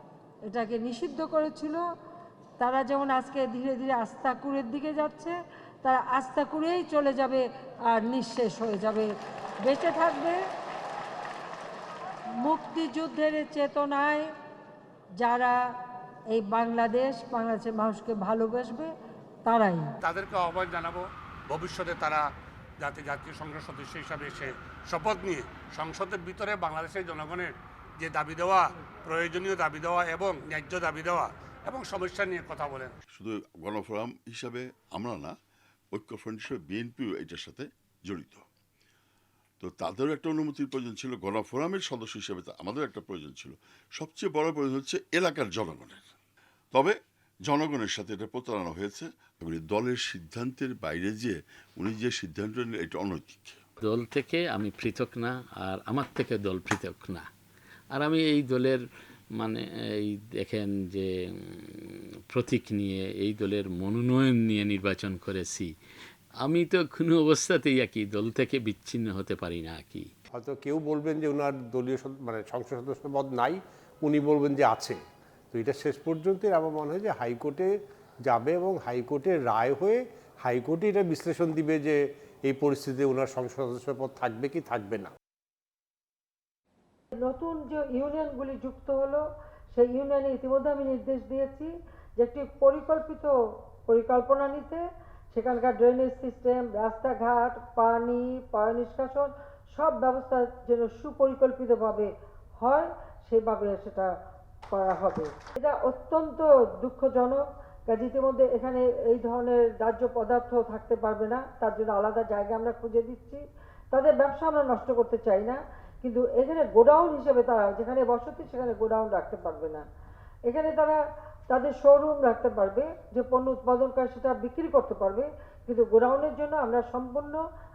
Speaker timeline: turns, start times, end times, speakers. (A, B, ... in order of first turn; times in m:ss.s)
0:00.5-0:01.8 A
0:02.6-0:09.1 A
0:09.6-0:10.4 A
0:12.4-0:14.3 A
0:15.2-0:15.6 A
0:16.3-0:18.9 A
0:19.4-0:19.9 A
0:20.0-0:22.2 B
0:22.8-0:32.9 B
0:33.1-0:35.3 C
0:35.9-0:38.4 C
0:39.6-0:46.1 C
0:46.7-0:53.6 C
0:53.8-0:57.2 D
0:57.9-0:58.8 D
0:59.4-1:05.7 D
1:06.4-1:10.1 D
1:10.3-1:15.0 E
1:15.5-1:17.7 E
1:18.3-1:25.1 E
1:27.2-1:33.3 A
1:33.9-1:44.1 A
1:44.7-1:53.4 A
1:53.9-1:59.8 A
2:00.5-2:07.4 A